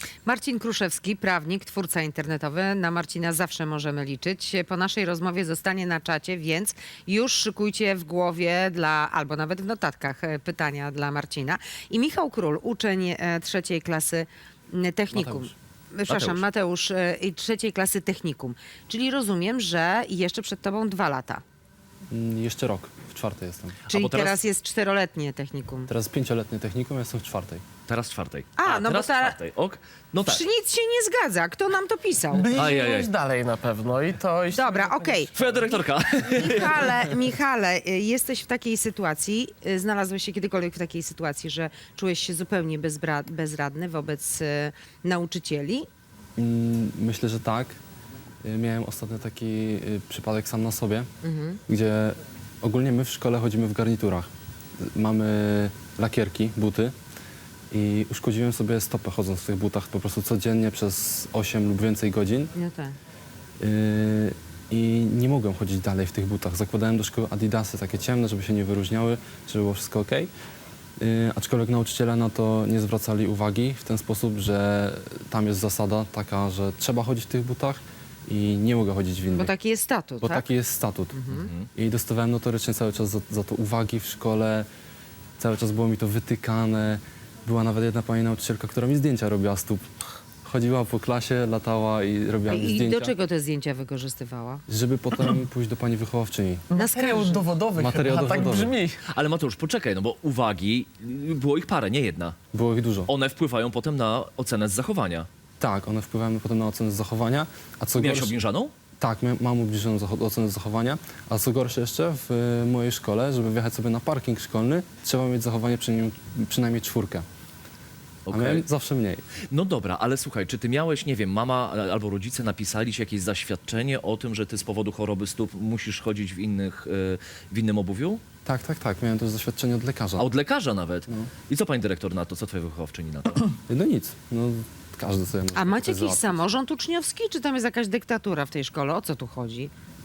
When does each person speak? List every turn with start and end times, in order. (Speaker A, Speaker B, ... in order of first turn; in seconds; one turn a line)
Speaker A: 0.2-21.4
Speaker B: 15.1-15.5
Speaker C: 16.1-16.4
Speaker B: 22.1-23.7
Speaker C: 23.9-24.4
Speaker A: 23.9-25.9
Speaker B: 25.9-27.6
Speaker C: 27.9-30.4
Speaker A: 28.6-29.4
Speaker A: 30.2-32.5
Speaker D: 32.3-35.5
Speaker C: 32.5-33.1
Speaker A: 34.5-35.3
Speaker C: 35.3-36.7
Speaker A: 36.4-45.9
Speaker B: 46.4-47.8
Speaker B: 48.4-51.1
Speaker A: 51.2-51.6
Speaker B: 51.7-54.3
Speaker B: 54.8-56.9
Speaker B: 57.7-62.5
Speaker A: 62.5-63.0
Speaker B: 63.6-70.3
Speaker B: 71.0-79.5
Speaker A: 79.3-80.5
Speaker B: 80.2-81.2
Speaker A: 81.1-81.5
Speaker C: 81.3-81.7
Speaker B: 81.7-84.7
Speaker B: 85.4-89.9
Speaker B: 90.4-93.1
Speaker A: 92.5-94.6
Speaker B: 94.7-96.7
Speaker D: 96.7-99.0
Speaker A: 96.7-97.5
Speaker B: 97.8-98.7
Speaker C: 99.1-102.3
Speaker B: 102.5-103.1
Speaker C: 103.1-105.3
Speaker B: 105.6-108.3
Speaker C: 108.0-108.7
Speaker B: 109.0-117.2
Speaker C: 118.2-118.6
Speaker B: 118.3-119.2
Speaker C: 119.5-128.2
Speaker B: 128.4-130.3
Speaker C: 130.2-133.5
Speaker B: 133.7-136.4
Speaker A: 135.5-139.7